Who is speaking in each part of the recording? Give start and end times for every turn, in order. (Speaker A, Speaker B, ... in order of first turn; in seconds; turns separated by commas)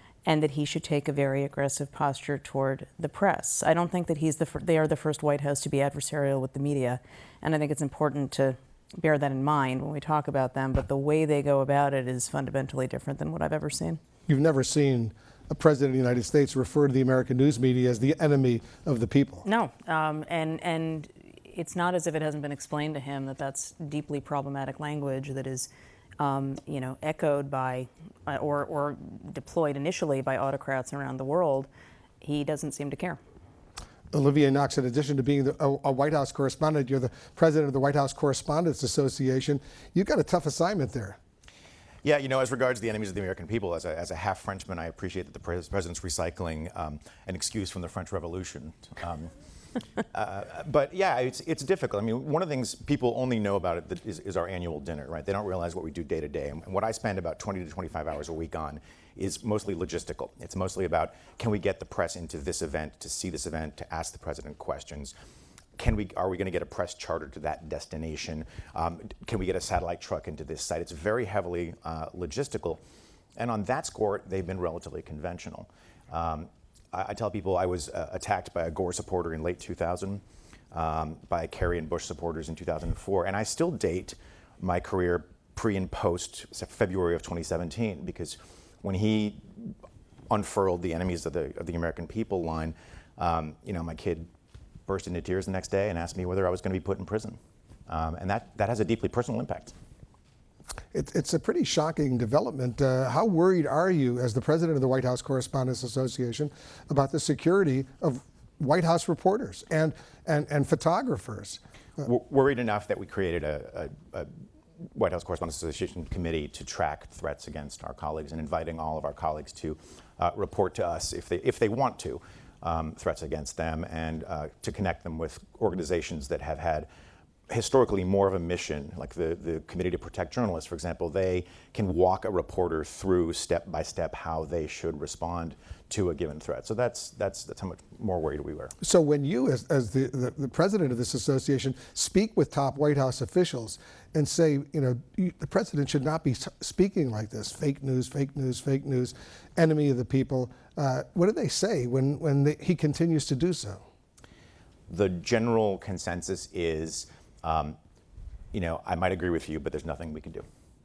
Speaker A: 0.2-14.0, Speaker B: 14.3-19.5, Speaker A: 19.4-31.7, Speaker A: 32.2-33.2, Speaker B: 34.1-41.2, Speaker C: 42.0-49.3, Speaker C: 50.1-65.1, Speaker C: 65.8-72.8, Speaker C: 73.4-89.8, Speaker C: 90.3-94.3, Speaker C: 94.9-99.7, Speaker B: 100.9-111.6, Speaker C: 112.0-114.3, Speaker C: 114.9-126.9, Speaker C: 127.5-138.7, Speaker B: 138.8-153.8, Speaker C: 154.9-157.8, Speaker C: 158.5-160.4